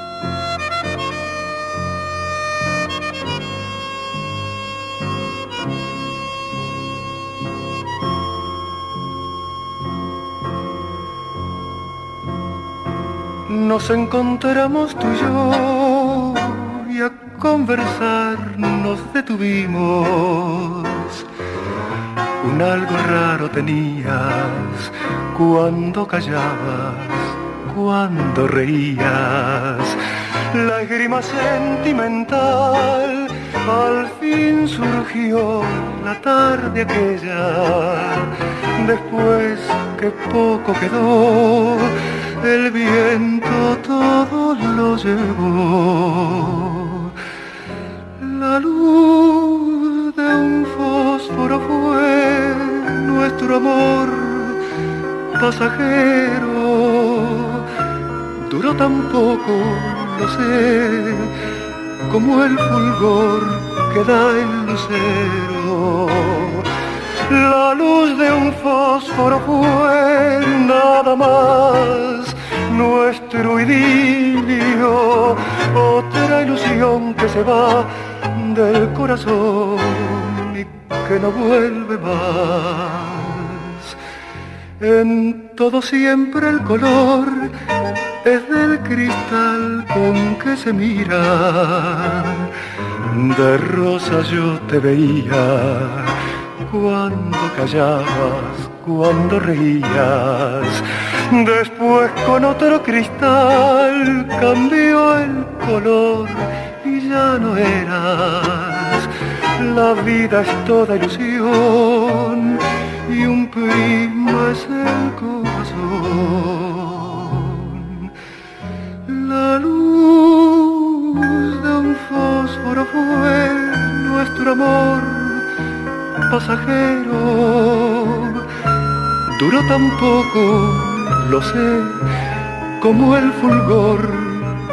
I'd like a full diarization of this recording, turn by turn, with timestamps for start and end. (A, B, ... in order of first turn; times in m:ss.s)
0:13.5-0:21.3 A
0:22.4-0:47.1 A
0:48.2-0:54.6 A
0:55.4-0:57.7 A
0:58.5-1:01.3 A
1:02.1-1:06.7 A
1:07.3-1:24.0 A
1:24.8-1:27.6 A
1:28.2-1:32.5 A
1:33.1-1:58.1 A
1:59.1-2:05.4 A
2:06.3-2:08.5 A
2:09.4-2:12.0 A
2:12.8-2:14.6 A